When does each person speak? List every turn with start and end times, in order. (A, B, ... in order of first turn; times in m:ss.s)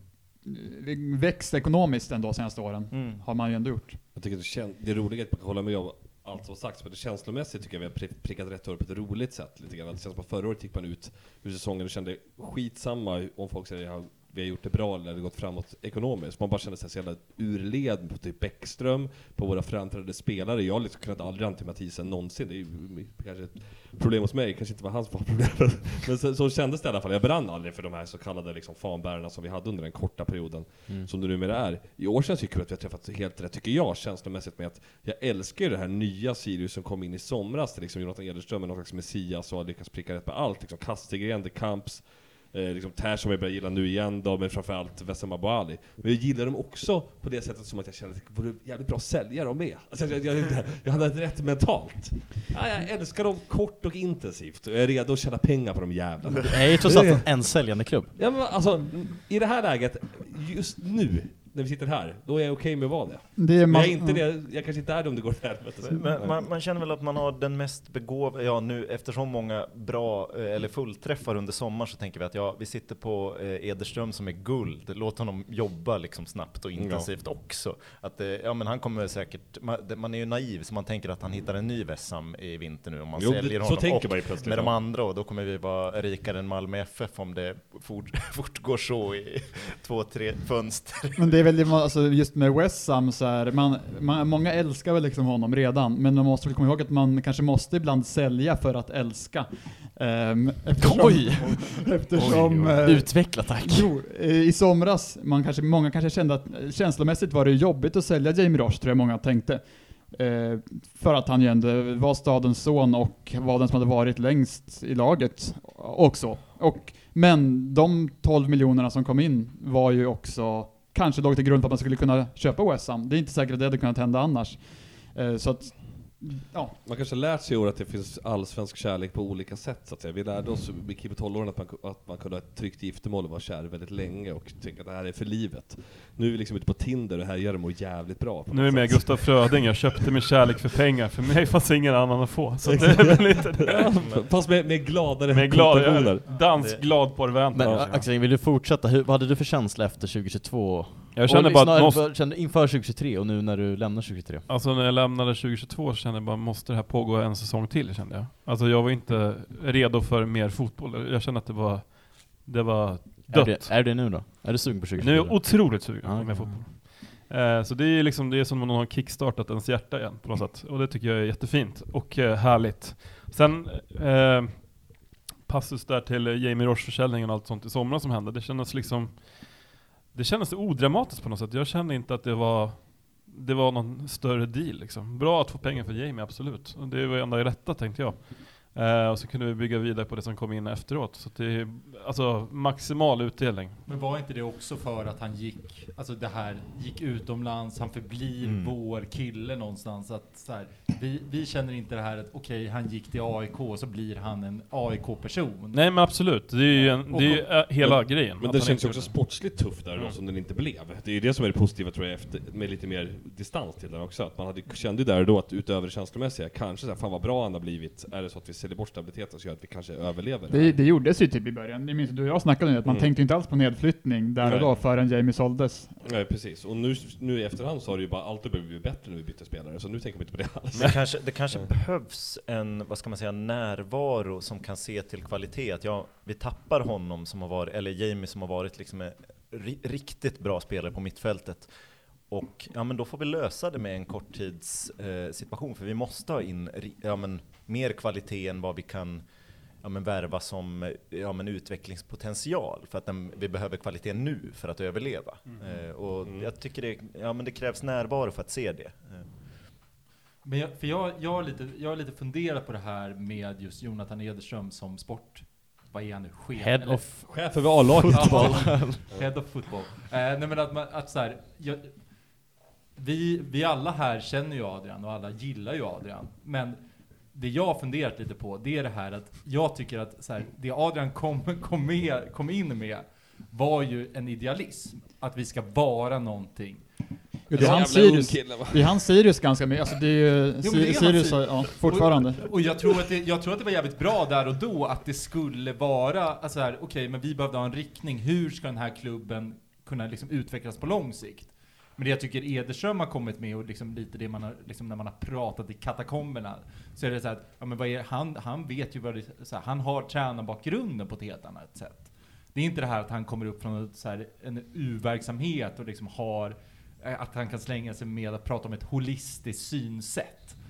0:00.4-0:04.0 A
0:02.9-0:03.2 B
0:04.2-0:57.3 C
0:56.4-0:58.1 D
0:58.2-1:06.4 C
1:03.4-1:04.2 A
1:05.8-1:31.3 B
1:16.8-1:17.1 C
1:23.2-1:24.7 C
1:31.2-2:06.8 A
1:40.8-1:43.9 D
1:42.2-1:42.9 E
2:06.8-2:20.0 C
2:18.5-2:24.0 E
2:22.6-2:26.3 C
2:24.0-2:24.3 B
2:25.3-2:28.0 E
2:26.6-2:26.9 B
2:27.5-2:34.5 D
2:27.6-2:28.0 C
2:31.2-2:32.1 E
2:34.5-2:44.2 E
2:43.3-2:46.7 D
2:45.0-3:13.8 E
3:13.9-3:25.8 F
3:18.4-3:18.7 B
3:25.7-3:29.2 E
3:26.7-3:27.4 F
3:27.8-3:40.8 C
3:40.5-3:45.9 A
3:42.8-3:43.1 C
3:44.4-3:44.8 C
3:46.0-3:51.0 C
3:50.8-4:01.7 B
4:02.3-4:09.2 B
4:09.8-4:19.3 B
4:20.4-4:27.0 F
4:26.6-4:29.0 D
4:27.3-4:29.3 C
4:28.1-4:31.9 F
4:33.0-4:36.8 F
4:37.3-4:46.8 F
4:47.5-4:52.4 A
4:47.5-4:49.0 C
4:50.6-5:20.6 F